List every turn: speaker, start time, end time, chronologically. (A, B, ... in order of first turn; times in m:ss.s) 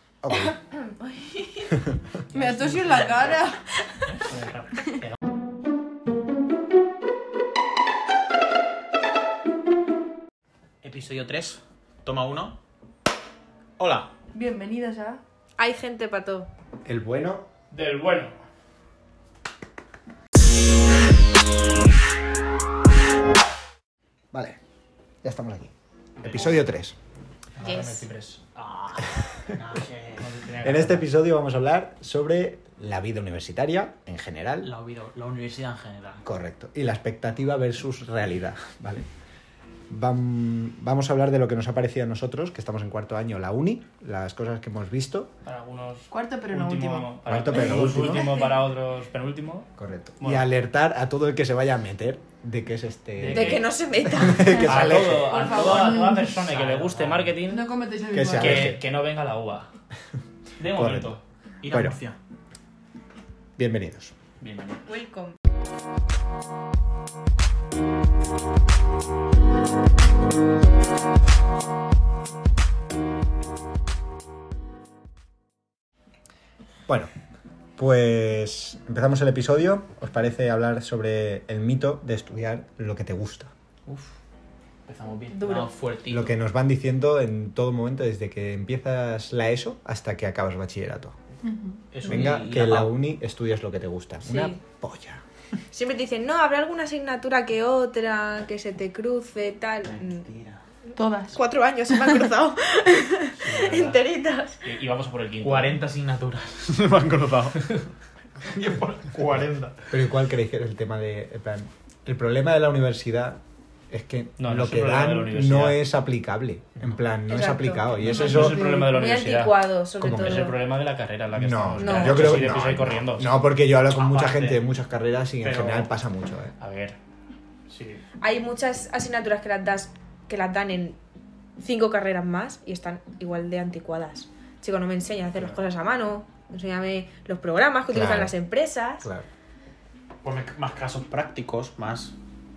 0:00.2-0:00.6 A
0:00.6-0:01.7 B
0:02.3-0:03.6 C
0:02.3-0:03.3 D
0:02.8-0:03.4 E
0:04.1-0:04.7 E
0:04.3-0:05.2 D
0:10.8-0:12.6 E
0:13.8-0:14.1 E
0:14.3-0:15.2 C
0:15.6-0:16.5 B
0:16.8-0:17.5 A
0:17.7-0:18.3 D
0:24.3-0:24.6 A
0:25.2-0:25.7 A
0:26.2-0:26.5 E
0:26.2-0:26.9 A
0:27.6-0:28.4 D
0:27.6-0:27.9 E
0:28.5-0:30.3 E
0:30.2-0:31.1 D
0:30.6-0:34.7 A
0:34.6-0:36.2 E
0:36.2-0:39.0 A
0:39.9-0:45.3 A
0:45.4-0:49.7 D
0:46.1-0:47.1 C
0:47.2-0:48.4 A
0:48.0-0:48.5 C
0:49.8-0:55.5 A
0:50.2-0:50.4 D
0:53.2-0:53.7 D
0:53.3-0:55.0 B
0:54.5-0:57.6 D
0:55.2-0:56.3 C
0:56.4-0:57.3 E
0:57.4-0:58.7 C
0:58.1-0:58.8 A
0:58.3-0:59.7 D
1:00.6-1:01.2 D
1:00.6-1:01.1 A
1:01.6-1:02.2 E
1:03.6-1:04.1 A
1:04.4-1:04.8 D
1:04.8-1:05.4 B
1:17.8-1:23.5 A
1:24.8-1:26.3 E
1:25.3-1:25.7 B
1:26.1-1:31.1 A
1:31.9-1:32.9 E
1:32.0-1:35.2 A
1:34.2-1:34.6 B
1:35.7-1:40.3 B
1:39.8-1:40.6 E
1:41.0-1:41.4 C
1:41.3-1:44.6 B
1:43.4-1:44.0 D
1:44.6-1:45.8 D
1:45.4-1:47.8 E
1:48.4-1:49.9 E
1:49.9-1:58.7 A
1:54.4-1:55.8 D
1:57.3-2:00.5 B
1:58.1-2:03.3 D
1:58.4-1:58.9 C
2:00.0-2:00.4 A
2:01.4-2:06.5 A
2:01.8-2:02.5 B
2:03.9-2:04.6 E
2:05.4-2:05.9 E
2:06.6-2:07.0 D
2:07.7-2:08.0 D
2:08.2-2:11.0 B
2:11.6-2:19.0 B
2:17.9-2:18.3 A
2:20.2-2:22.1 E